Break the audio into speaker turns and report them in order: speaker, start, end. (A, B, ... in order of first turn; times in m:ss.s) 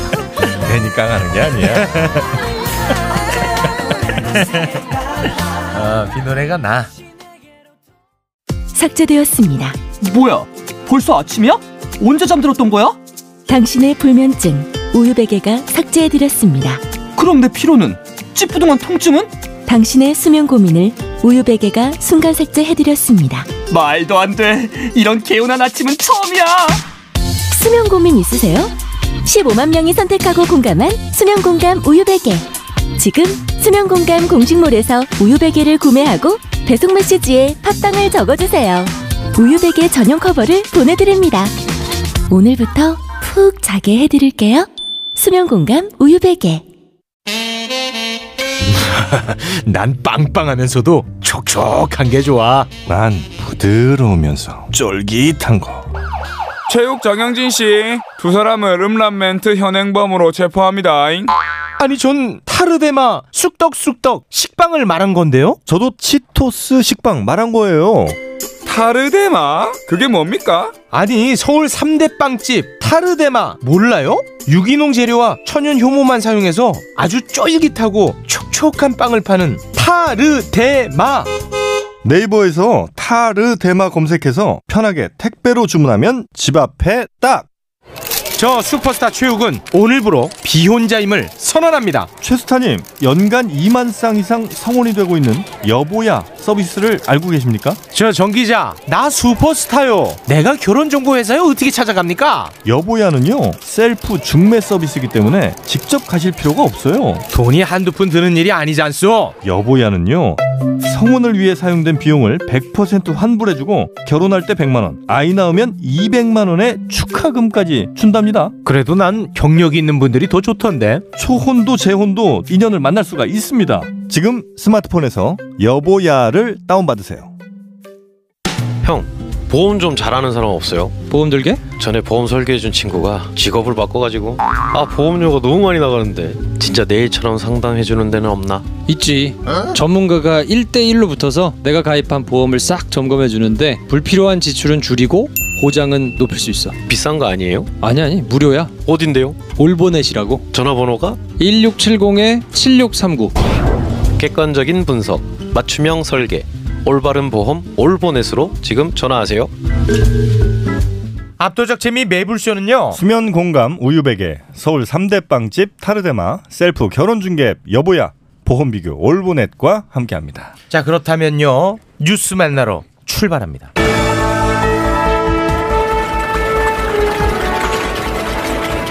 0:00.6-0:02.2 A
0:00.7-0:02.3 B
0:04.2-0:04.8 B
0:05.7-0:06.9 B
0:08.7-0:09.8 C
0:10.0-0:13.0 D
0:13.5-0:16.8 C
0:17.2-0:19.3 D
0:19.7-0:23.5 C
0:23.7-0:26.8 D
0:27.5-0:41.5 C
0:42.3-0:46.6 C
0:48.6-0:52.7 B
0:52.9-0:55.9 A
0:56.7-1:01.3 E
1:01.8-1:05.6 B
1:05.7-1:08.2 A
1:08.6-1:10.8 E
1:10.9-1:21.3 B
1:22.0-1:27.5 A
1:28.4-1:32.1 B
1:32.2-1:37.8 A
1:37.9-1:42.5 B
1:42.6-1:47.2 A
1:47.3-1:49.4 B
1:49.4-1:58.5 A
1:58.6-2:01.0 B
2:01.2-2:07.3 A
2:08.8-2:11.1 F
2:11.1-2:11.6 G
2:11.8-2:18.7 F
2:18.9-2:26.8 G
2:26.9-2:27.8 F
2:27.8-2:28.8 G
2:28.8-2:29.5 F
2:29.5-2:30.5 G
2:30.5-2:31.3 F
2:31.4-2:33.4 G
2:34.2-2:39.5 F
2:41.4-2:43.0 B
2:42.9-2:50.5 A
2:50.7-2:53.7 B